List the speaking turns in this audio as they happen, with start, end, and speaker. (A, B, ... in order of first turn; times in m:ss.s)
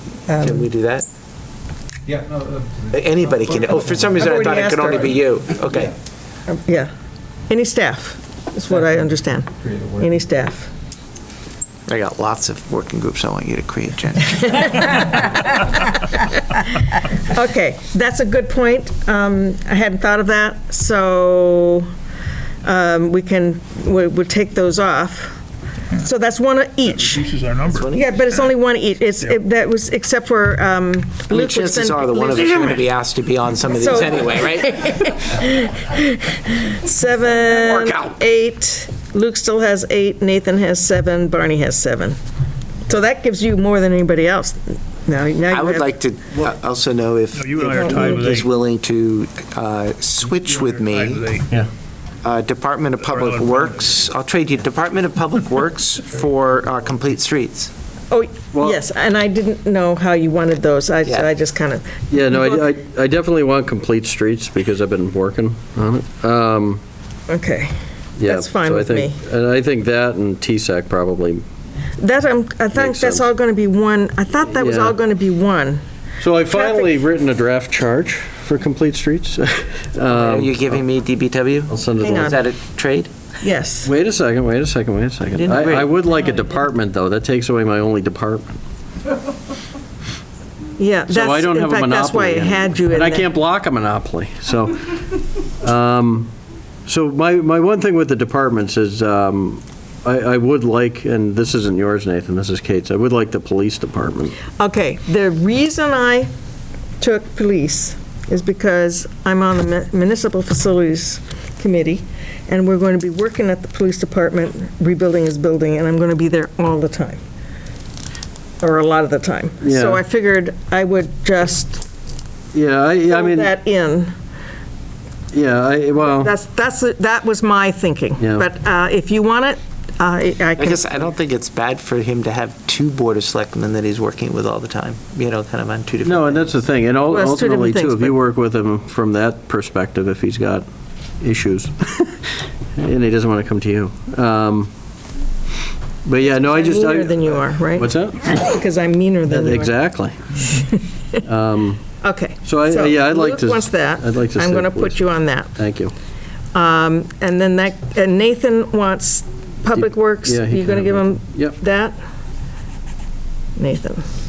0:00.3-0:00.7 A
0:00.4-0:01.0 B
0:02.0-0:04.9 C
0:02.9-0:05.9 B
0:04.2-0:05.2 A
0:06.5-0:06.9 A
0:07.5-0:10.7 A
0:09.6-0:10.2 C
0:11.9-0:15.2 B
0:14.5-0:15.8 A
0:16.6-0:21.9 A
0:22.6-0:25.4 A
0:26.0-0:27.3 A
0:26.9-0:27.9 D
0:27.7-0:28.0 B
0:27.9-0:32.8 A
0:31.3-0:34.8 B
0:33.7-0:42.2 A
0:37.4-0:38.2 B
0:42.9-0:45.9 A
0:45.5-0:51.2 B
0:47.3-0:48.5 D
0:47.8-0:48.2 A
0:50.4-0:51.5 D
0:52.2-0:57.7 B
0:53.0-0:53.9 D
0:58.1-1:02.7 A
0:58.5-0:58.8 E
1:01.0-1:01.3 B
1:02.1-1:06.8 E
1:07.3-1:09.2 A
1:08.2-1:11.4 E
1:12.0-1:15.8 A
1:12.7-1:13.3 E
1:14.5-1:15.0 E
1:16.2-1:20.8 E
1:16.5-1:16.9 A
1:20.1-1:23.1 B
1:21.7-1:22.4 E
1:22.0-1:22.4 A
1:23.4-1:23.9 A
1:23.8-1:28.6 E
1:25.4-1:25.9 B
1:30.8-1:33.3 A
1:31.1-1:35.0 E
1:35.6-1:36.3 E
1:36.8-1:44.4 E
1:44.5-1:46.3 A
1:47.0-1:57.2 A
1:58.6-2:01.8 A
1:59.6-2:00.0 E
2:02.5-2:03.5 E
2:03.1-2:04.1 A
2:05.3-2:06.3 E
2:06.0-2:10.8 A
2:08.2-2:08.4 E
2:10.6-2:16.5 B
2:16.0-2:20.6 E
2:17.1-2:18.2 A
2:21.2-2:22.2 E
2:22.7-2:24.7 E
2:26.0-2:28.3 E
2:26.2-2:29.7 A
2:29.3-2:30.1 E
2:30.4-2:31.2 A
2:31.2-2:31.8 E
2:32.0-2:35.5 A
2:32.4-2:35.0 E
2:35.5-2:35.9 E
2:36.5-2:42.0 A
2:39.7-2:41.6 E
2:43.6-2:44.0 A